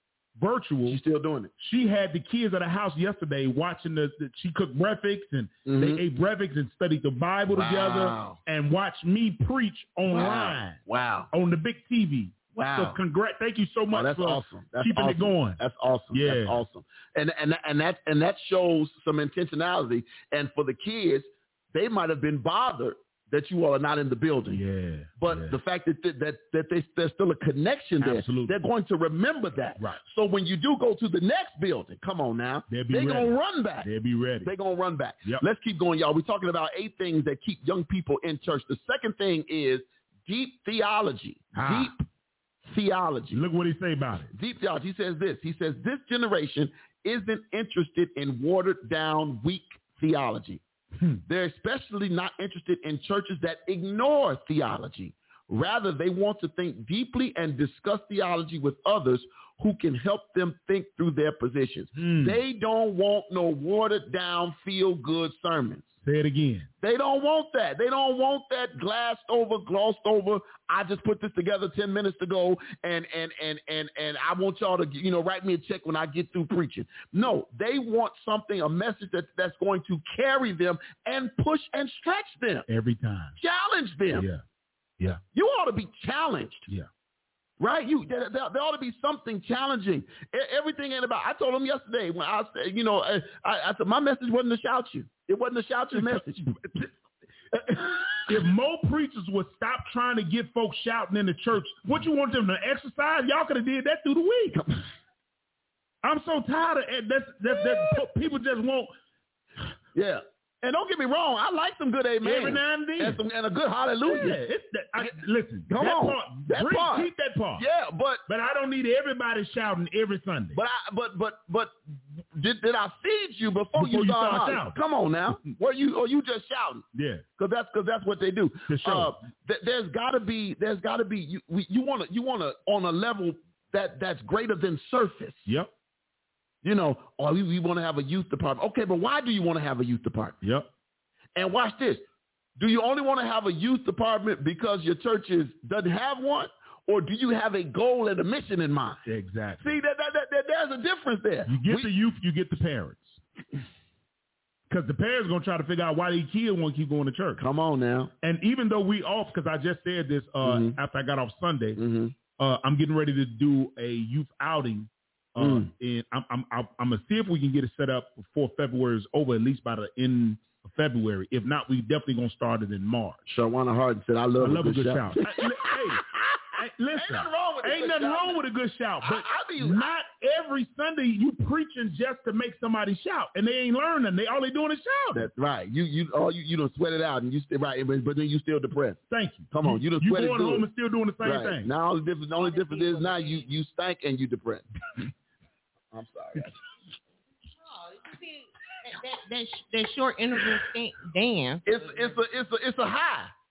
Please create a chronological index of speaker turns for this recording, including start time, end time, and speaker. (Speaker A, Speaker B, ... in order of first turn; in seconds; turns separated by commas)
Speaker A: 0.4-1.0, Speaker B: 0.8-1.5, Speaker A: 1.6-10.8, Speaker B: 5.7-6.0, Speaker B: 7.5-8.4, Speaker B: 10.1-11.3, Speaker A: 11.3-15.6, Speaker B: 12.6-13.0, Speaker B: 13.9-24.6, Speaker A: 16.1-16.6, Speaker A: 24.5-25.6, Speaker B: 25.2-33.9, Speaker A: 28.0-28.6, Speaker A: 32.7-34.5, Speaker B: 34.4-42.0, Speaker A: 41.5-41.9, Speaker B: 42.6-43.4, Speaker A: 43.3-44.3, Speaker B: 44.3-50.6, Speaker B: 51.2-65.9, Speaker A: 62.0-62.4, Speaker A: 66.0-66.7, Speaker B: 66.8-82.7, Speaker A: 82.7-83.4, Speaker B: 83.4-84.3, Speaker A: 84.1-84.4, Speaker B: 85.3-86.7, Speaker B: 87.6-96.5, Speaker A: 95.9-96.9, Speaker A: 97.7-104.6, Speaker B: 97.7-98.3, Speaker B: 104.5-104.8, Speaker A: 106.0-108.9, Speaker B: 109.9-114.4, Speaker A: 112.2-113.2, Speaker A: 114.0-117.7, Speaker B: 115.7-118.2, Speaker A: 118.3-120.6, Speaker B: 120.5-126.8, Speaker A: 123.7-124.8, Speaker A: 126.9-127.2, Speaker B: 127.4-135.5, Speaker A: 128.7-129.2, Speaker A: 135.4-135.7, Speaker B: 136.6-140.4, Speaker A: 140.4-140.7, Speaker B: 141.3-142.0, Speaker B: 142.6-149.1, Speaker A: 149.1-149.7, Speaker B: 149.6-151.9, Speaker A: 151.5-153.2, Speaker A: 154.7-157.4, Speaker B: 157.4-158.1, Speaker A: 158.2-161.8, Speaker B: 160.4-160.8, Speaker B: 161.8-162.1, Speaker A: 162.4-173.2, Speaker B: 165.4-165.7, Speaker B: 173.3-178.4, Speaker A: 174.4-185.3, Speaker B: 179.0-179.9, Speaker B: 185.1-189.0, Speaker A: 189.1-191.7, Speaker B: 189.5-190.7, Speaker B: 191.2-194.7, Speaker C: 192.4-193.5, Speaker B: 195.9-196.6, Speaker C: 197.7-202.2, Speaker B: 201.6-203.3